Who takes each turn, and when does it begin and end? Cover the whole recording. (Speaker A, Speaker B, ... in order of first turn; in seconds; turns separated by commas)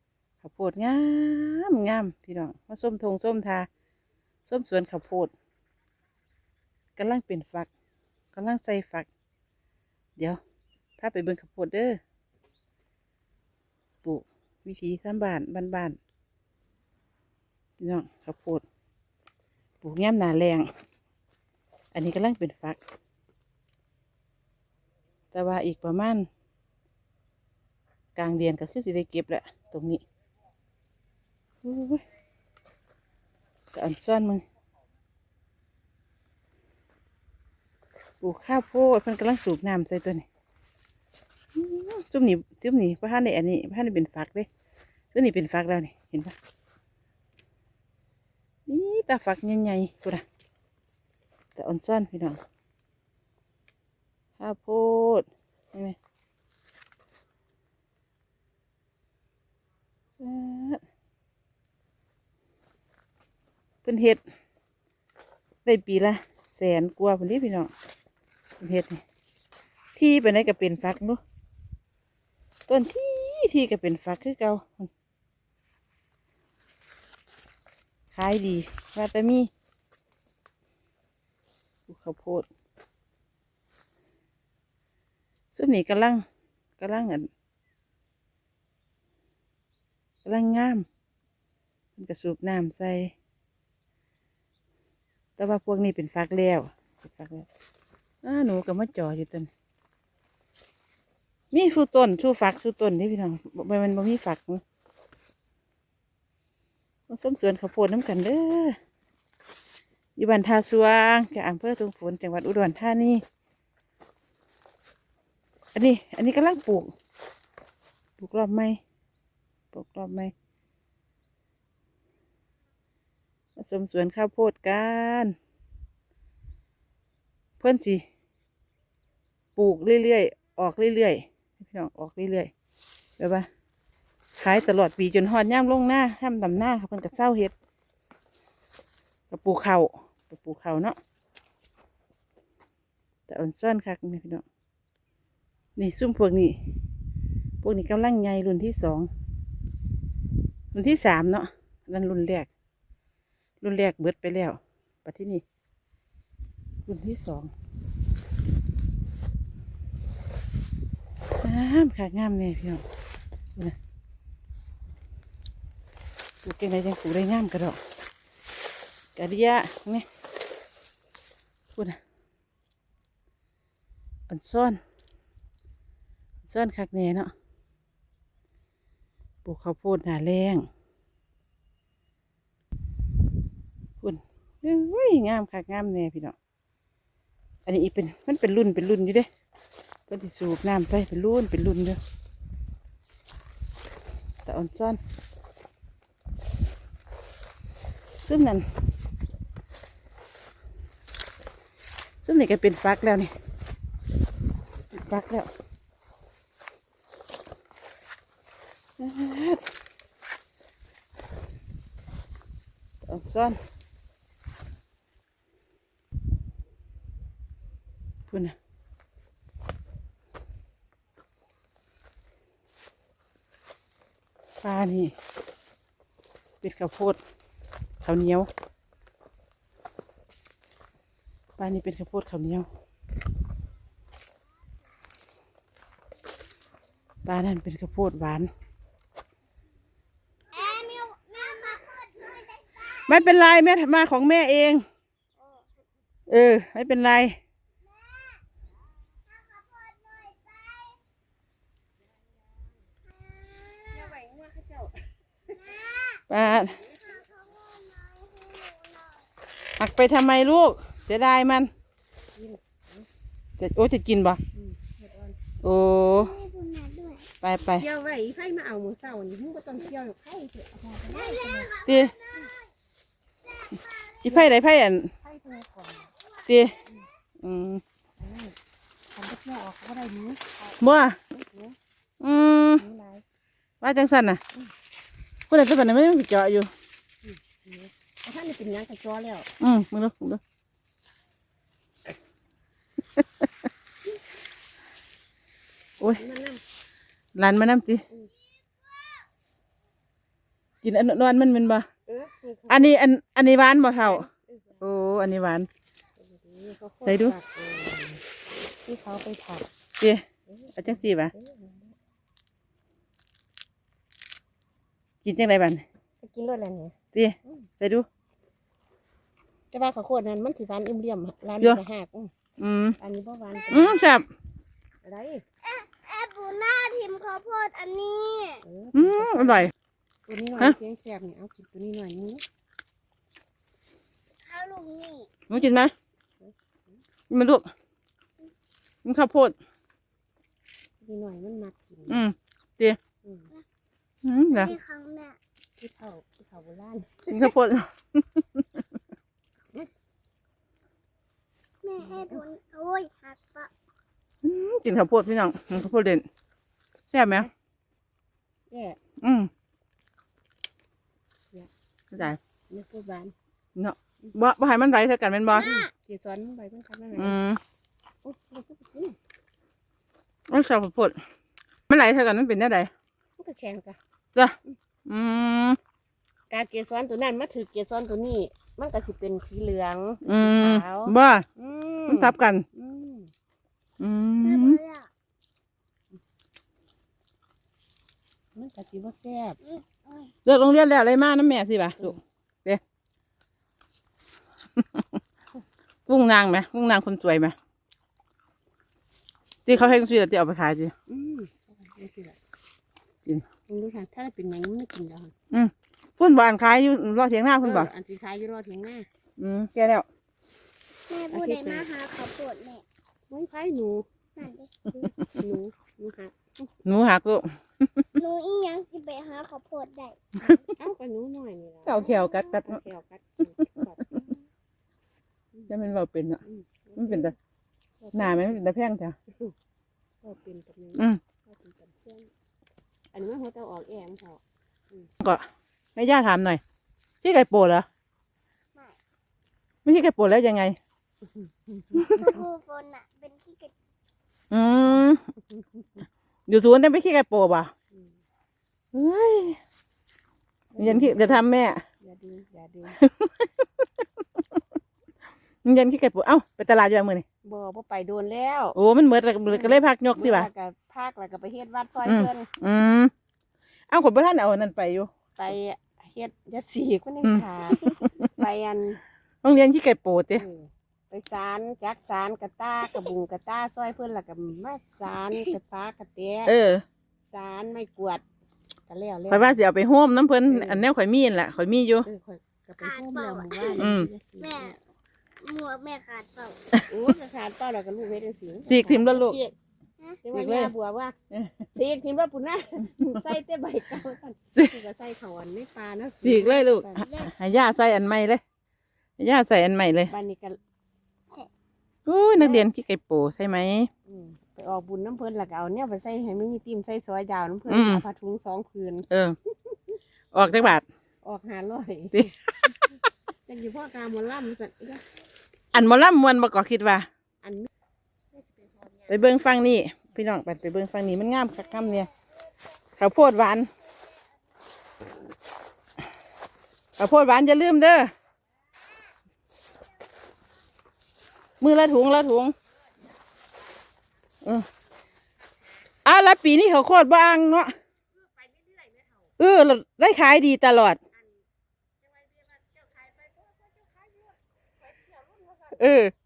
Speaker A: 0.4-3.7, Speaker A: 4.5-5.3, Speaker A: 7.0-7.7, Speaker A: 8.3-9.1, Speaker A: 11.0-12.0, Speaker A: 14.0-16.0, Speaker A: 17.8-18.6, Speaker A: 19.8-20.7, Speaker A: 21.9-22.8, Speaker A: 25.3-26.3, Speaker A: 28.2-30.0, Speaker A: 31.6-32.0, Speaker A: 33.7-34.4, Speaker A: 38.2-40.2, Speaker A: 41.5-44.5, Speaker A: 45.1-46.4, Speaker A: 48.7-50.2, Speaker A: 51.6-52.4, Speaker A: 54.4-56.0, Speaker A: 60.2-60.8, Speaker A: 63.8-64.2, Speaker A: 65.7-67.7, Speaker A: 68.6-69.0, Speaker A: 70.0-71.2, Speaker A: 72.7-74.9, Speaker A: 78.1-79.5, Speaker A: 81.9-82.5, Speaker A: 85.5-86.2, Speaker A: 86.8-87.3, Speaker A: 90.2-90.9, Speaker A: 92.0-93.1, Speaker A: 95.4-97.5, Speaker A: 98.2-99.5, Speaker A: 101.5-104.6, Speaker A: 107.1-108.8, Speaker A: 110.2-113.2, Speaker A: 115.8-116.9, Speaker A: 118.2-118.8, Speaker A: 119.7-120.3, Speaker A: 123.6-125.3, Speaker A: 127.6-128.0, Speaker A: 129.6-132.5, Speaker A: 133.2-133.5, Speaker A: 134.4-137.5, Speaker A: 139.3-141.0, Speaker A: 143.3-144.4, Speaker A: 145.8-146.6, Speaker A: 147.6-149.1, Speaker A: 150.7-152.5, Speaker A: 153.6-155.4, Speaker A: 156.9-157.5, Speaker A: 161.4-162.8, Speaker A: 166.4-167.8, Speaker A: 169.2-170.1, Speaker A: 174.3-174.8, Speaker A: 176.5-177.3, Speaker A: 179.4-180.7, Speaker A: 184.0-186.3, Speaker A: 187.7-189.3, Speaker A: 190.1-192.0, Speaker A: 194.4-195.0, Speaker A: 198.3-198.7, Speaker A: 202.2-203.3, Speaker A: 204.9-205.5, Speaker A: 209.0-209.6, Speaker A: 213.1-213.6, Speaker A: 218.3-218.6, Speaker A: 224.6-225.1, Speaker A: 226.6-227.2, Speaker A: 228.0-228.5, Speaker A: 231.6-232.7, Speaker A: 237.2-238.5, Speaker B: 240.5-243.3, Speaker A: 242.9-244.8, Speaker A: 246.3-247.4, Speaker B: 248.1-248.4, Speaker B: 249.3-251.0, Speaker B: 253.4-254.1, Speaker C: 253.9-255.1, Speaker B: 255.5-259.3, Speaker A: 256.3-256.8, Speaker C: 256.4-257.1, Speaker A: 259.8-261.7, Speaker C: 262.4-263.1, Speaker A: 263.6-264.4, Speaker C: 264.5-265.4, Speaker A: 265.6-266.4, Speaker B: 266.1-267.3, Speaker A: 267.4-267.9, Speaker C: 267.8-271.8, Speaker B: 271.1-272.5, Speaker A: 271.8-272.1, Speaker A: 274.2-275.1, Speaker C: 274.3-274.6, Speaker C: 275.2-276.1, Speaker A: 276.5-276.8, Speaker A: 277.4-277.8, Speaker C: 278.2-278.6, Speaker C: 279.1-281.8, Speaker A: 280.8-281.2, Speaker A: 282.2-282.9, Speaker C: 282.8-283.2, Speaker A: 283.8-284.4, Speaker A: 285.5-286.7, Speaker C: 287.2-289.5, Speaker A: 289.6-290.4, Speaker C: 296.1-296.6, Speaker A: 297.4-298.0, Speaker A: 300.8-301.9, Speaker C: 302.1-302.9, Speaker A: 302.7-304.3, Speaker C: 304.0-304.8, Speaker A: 304.8-305.7, Speaker C: 306.2-308.2, Speaker A: 307.1-307.4, Speaker C: 308.8-309.7, Speaker A: 310.0-310.2, Speaker C: 310.5-311.9, Speaker A: 310.8-311.3, Speaker A: 315.2-315.8, Speaker C: 316.2-317.0, Speaker A: 317.1-318.1, Speaker C: 319.7-322.3, Speaker A: 322.6-323.0, Speaker C: 323.0-324.0, Speaker A: 323.7-324.3, Speaker C: 325.0-325.4, Speaker B: 325.6-328.6, Speaker C: 328.6-329.7, Speaker A: 328.9-329.7, Speaker C: 330.3-332.4, Speaker B: 334.4-335.3, Speaker A: 335.5-335.9, Speaker A: 337.3-337.7, Speaker A: 339.1-339.6, Speaker C: 341.0-342.2, Speaker A: 342.1-343.0, Speaker C: 343.2-343.5, Speaker A: 344.2-344.7, Speaker B: 344.5-345.4, Speaker C: 345.8-347.6, Speaker A: 347.3-348.6, Speaker B: 351.8-353.7, Speaker C: 352.0-352.4, Speaker A: 354.4-356.2, Speaker A: 357.1-357.5, Speaker C: 358.7-359.0, Speaker A: 359.2-359.5, Speaker C: 361.5-363.3, Speaker A: 362.1-362.4, Speaker A: 363.8-365.8, Speaker C: 365.5-367.4, Speaker A: 367.2-367.6, Speaker C: 368.2-369.2, Speaker A: 370.5-371.2, Speaker A: 371.9-372.9, Speaker C: 373.4-374.0, Speaker A: 374.4-375.8, Speaker C: 376.5-383.3, Speaker A: 380.2-381.5, Speaker A: 382.1-382.6, Speaker A: 384.0-384.8, Speaker B: 384.4-385.1, Speaker C: 388.6-389.6, Speaker B: 389.6-390.3, Speaker A: 390.4-392.8, Speaker A: 394.8-395.2, Speaker A: 396.1-397.6, Speaker A: 399.7-400.9, Speaker C: 401.1-402.4, Speaker C: 403.7-405.3, Speaker A: 405.5-407.9, Speaker C: 407.6-409.1, Speaker A: 409.4-410.1, Speaker B: 411.1-412.9, Speaker C: 411.3-411.9, Speaker C: 413.3-414.1, Speaker B: 414.4-414.8, Speaker C: 414.9-416.7, Speaker A: 415.0-415.4, Speaker A: 416.9-418.1, Speaker B: 418.2-420.6, Speaker C: 420.7-424.4, Speaker A: 421.9-422.8, Speaker A: 425.7-426.4, Speaker C: 426.4-427.4, Speaker A: 427.0-427.4, Speaker C: 428.0-428.6, Speaker A: 428.1-429.2, Speaker C: 430.2-432.3, Speaker A: 431.0-431.2, Speaker C: 433.1-435.1, Speaker A: 436.0-436.6, Speaker A: 437.2-437.9, Speaker A: 439.9-440.8, Speaker C: 441.3-442.2, Speaker A: 441.9-442.3, Speaker B: 442.1-443.7, Speaker A: 444.5-445.2, Speaker C: 445.5-445.9, Speaker A: 446.5-447.7, Speaker A: 448.9-449.6, Speaker C: 450.7-451.4, Speaker A: 450.8-451.8, Speaker C: 452.0-453.0, Speaker A: 453.0-454.1, Speaker A: 455.6-457.2, Speaker C: 457.4-458.8, Speaker A: 458.8-460.5, Speaker C: 459.5-462.5, Speaker A: 462.1-463.1, Speaker A: 463.9-465.1, Speaker C: 465.4-469.0, Speaker A: 467.2-468.2, Speaker A: 469.4-470.4, Speaker C: 470.3-476.5, Speaker A: 476.4-476.8, Speaker C: 477.3-478.2, Speaker C: 478.9-479.6, Speaker A: 479.3-482.1, Speaker C: 480.5-480.9, Speaker C: 482.1-484.8, Speaker B: 482.8-483.9, Speaker A: 483.8-484.1, Speaker B: 484.4-484.8, Speaker B: 485.4-486.6, Speaker C: 486.9-489.6, Speaker A: 488.7-489.4, Speaker C: 490.2-491.2, Speaker A: 490.3-490.7, Speaker A: 491.3-491.7, Speaker C: 491.7-497.1, Speaker A: 496.2-498.4, Speaker A: 499.2-500.1, Speaker C: 500.1-500.6, Speaker A: 502.1-503.9, Speaker C: 502.4-502.7, Speaker C: 504.1-510.0, Speaker A: 507.7-508.0, Speaker A: 509.1-509.4, Speaker A: 510.3-510.9, Speaker C: 511.2-512.3, Speaker A: 512.1-512.8, Speaker C: 513.5-515.0, Speaker A: 515.7-517.1, Speaker C: 517.4-517.7, Speaker A: 519.1-522.1, Speaker A: 523.0-523.7, Speaker A: 527.0-528.1, Speaker A: 531.6-532.5, Speaker A: 536.0-537.7, Speaker C: 538.1-539.3, Speaker A: 539.4-541.0, Speaker C: 542.0-545.8, Speaker A: 545.7-546.1